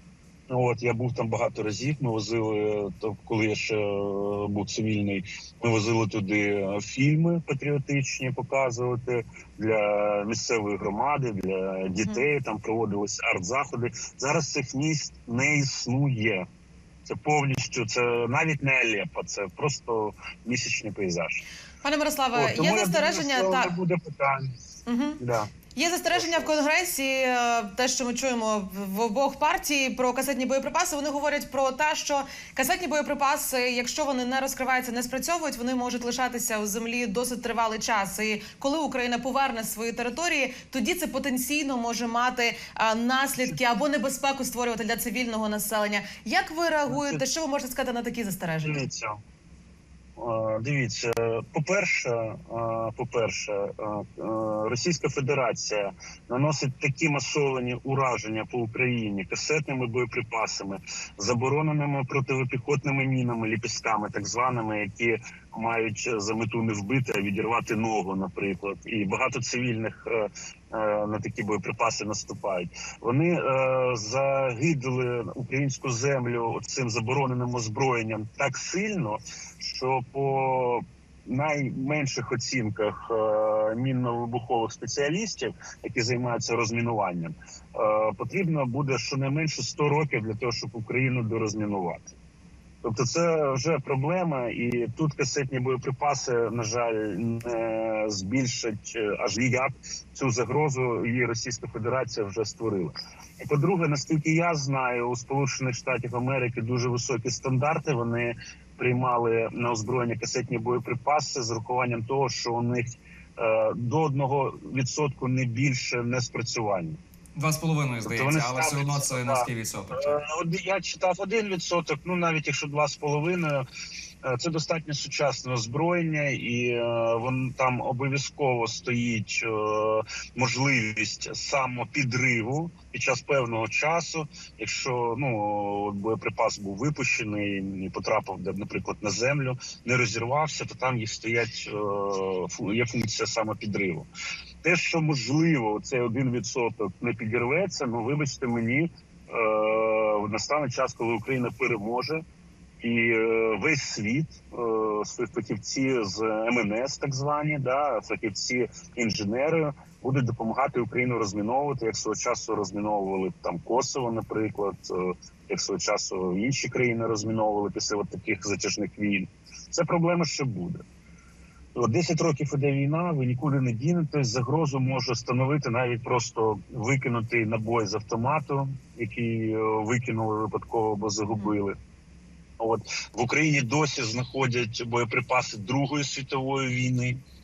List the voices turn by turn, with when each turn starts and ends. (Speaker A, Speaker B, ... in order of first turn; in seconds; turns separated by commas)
Speaker A: 0.5-16.4, Speaker A: 17.1-21.4, Speaker B: 21.8-23.7, Speaker A: 22.3-24.5, Speaker B: 24.9-25.2, Speaker A: 25.2-25.5, Speaker B: 25.7-48.8, Speaker A: 26.1-26.5, Speaker A: 46.9-47.2, Speaker A: 48.6-49.2, Speaker A: 50.2-92.1, Speaker A: 92.8-117.0, Speaker C: 117.3-120.2, Speaker A: 118.0-123.7, Speaker A: 124.2-144.1, Speaker A: 144.6-152.2, Speaker A: 152.8-170.8, Speaker A: 171.7-181.8, Speaker A: 182.6-187.2